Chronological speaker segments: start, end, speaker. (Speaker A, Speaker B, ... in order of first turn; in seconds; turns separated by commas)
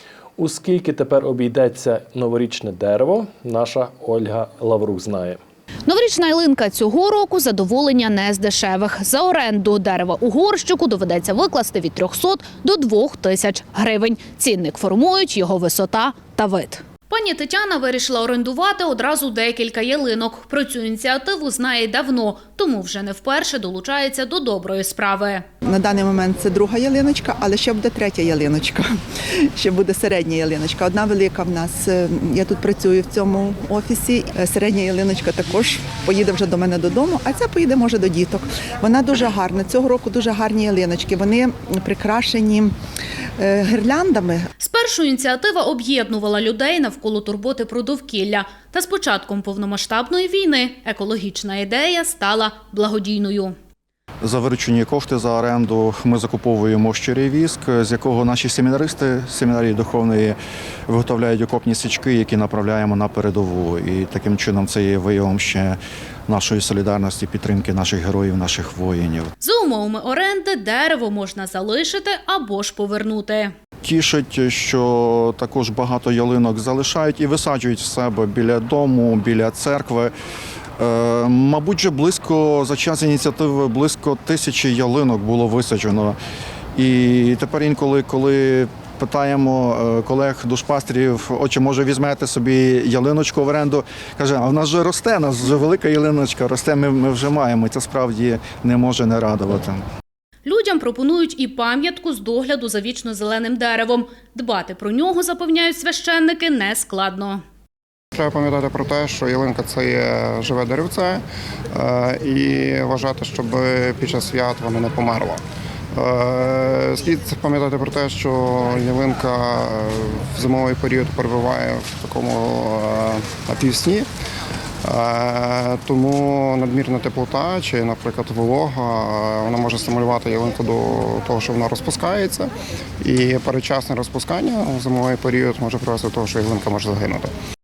Speaker A: 0.4-5.4, Speaker B: 5.9-25.4, Speaker C: 25.6-28.9, Speaker C: 29.5-42.7, Speaker C: 43.4-44.4, Speaker B: 44.6-53.5, Speaker D: 54.2-60.4, Speaker D: 60.9-65.8, Speaker D: 66.3-69.3, Speaker B: 69.4-73.5, Speaker D: 73.8-80.1, Speaker D: 80.8-86.2, Speaker D: 86.8-99.8, Speaker B: 100.4-107.4, Speaker E: 108.1-115.4, Speaker E: 115.9-124.1, Speaker E: 124.8-137.3